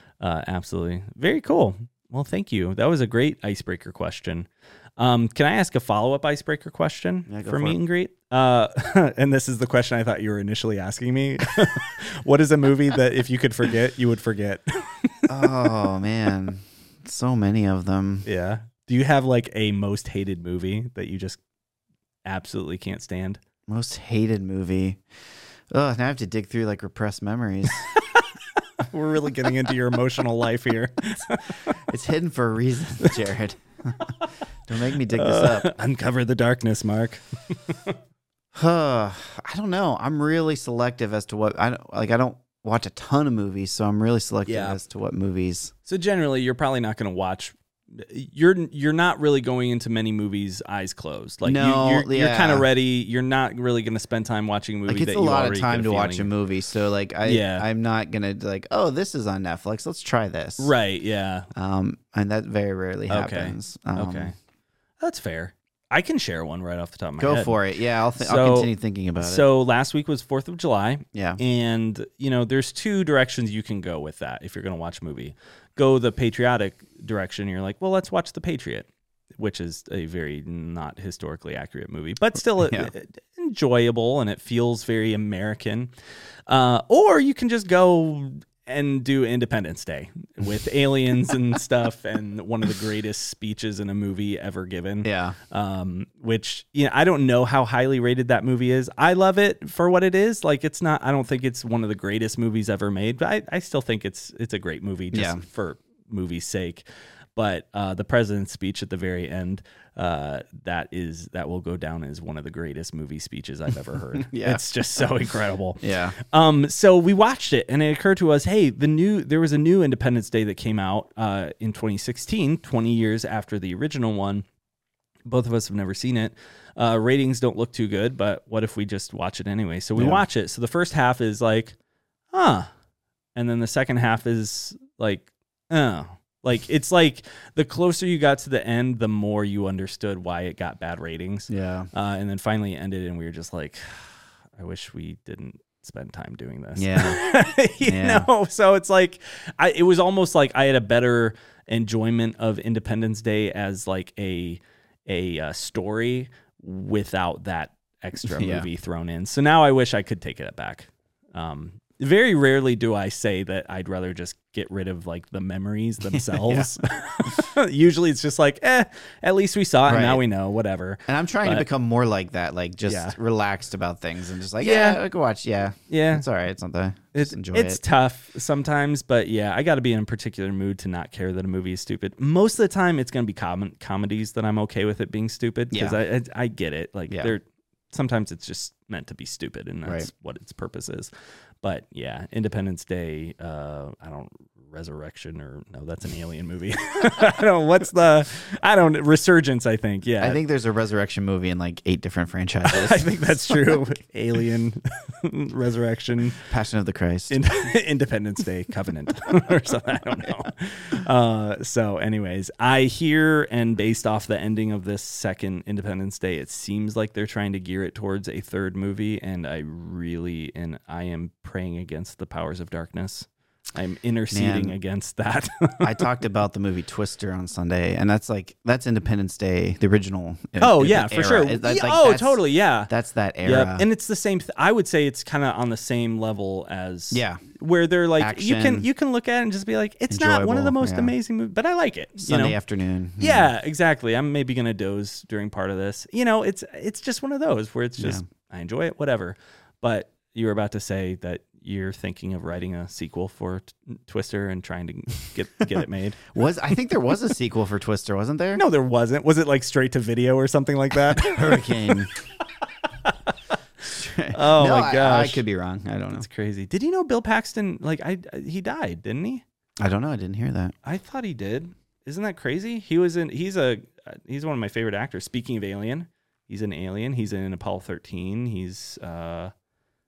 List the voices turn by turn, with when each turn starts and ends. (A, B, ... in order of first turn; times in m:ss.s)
0:00.2-0:15.7 A
0:07.3-0:07.8 B
0:15.3-0:18.2 B
0:18.2-0:21.4 A
0:22.2-0:23.4 A
0:23.7-0:25.0 B
0:25.7-0:27.9 B
0:28.0-0:28.3 A
0:28.8-0:31.7 A
0:31.7-0:34.0 B
0:34.7-0:35.7 B
0:35.1-0:38.0 A
0:38.5-0:45.7 B
0:44.4-0:44.8 A
0:45.8-0:56.3 A
0:51.4-0:52.7 B
0:54.9-1:00.7 B
0:57.2-0:57.7 A
1:00.6-1:01.5 A
1:01.5-1:04.3 B
1:03.1-1:04.3 A
1:05.0-1:07.6 A
1:07.2-1:09.4 B
1:08.2-1:25.9 A
1:11.1-1:11.4 B
1:22.6-1:22.9 B
1:26.5-1:46.8 A
1:35.0-1:35.4 B
1:45.1-1:45.4 B
1:47.4-2:04.4 A
1:54.2-1:55.0 B
1:55.8-1:56.2 B
2:05.2-2:11.8 A
2:10.0-2:10.2 B
2:12.3-2:12.7 A
2:13.4-2:51.6 A
2:21.5-2:21.9 B
2:26.8-2:27.2 B
2:27.8-2:28.3 B
2:38.2-2:38.7 B
2:46.1-2:46.8 B
2:49.9-2:50.2 B
2:51.1-2:57.8 B
2:52.9-2:53.2 A
2:54.6-2:55.0 A
2:55.9-2:56.2 A
2:57.1-3:11.1 A
3:05.7-3:06.0 B
3:09.8-3:10.1 B
3:11.6-3:20.4 A
3:20.2-3:23.8 B
3:22.6-3:26.4 A
3:26.4-3:27.4 B
3:27.3-3:46.1 A
3:44.3-3:44.8 B
3:45.8-3:53.8 B
3:50.6-3:52.9 A
3:53.4-4:02.6 A
3:57.1-3:57.4 B
3:58.2-3:58.9 B
4:00.1-4:01.1 B
4:02.2-4:03.5 B
4:03.2-4:16.3 A
4:08.0-4:08.2 B
4:16.3-4:18.6 B
4:18.6-4:22.0 A
4:21.1-4:22.1 B
4:23.8-4:26.2 B
4:24.3-4:25.4 A
4:26.1-4:29.4 A
4:29.8-4:30.7 B
4:30.8-4:39.5 A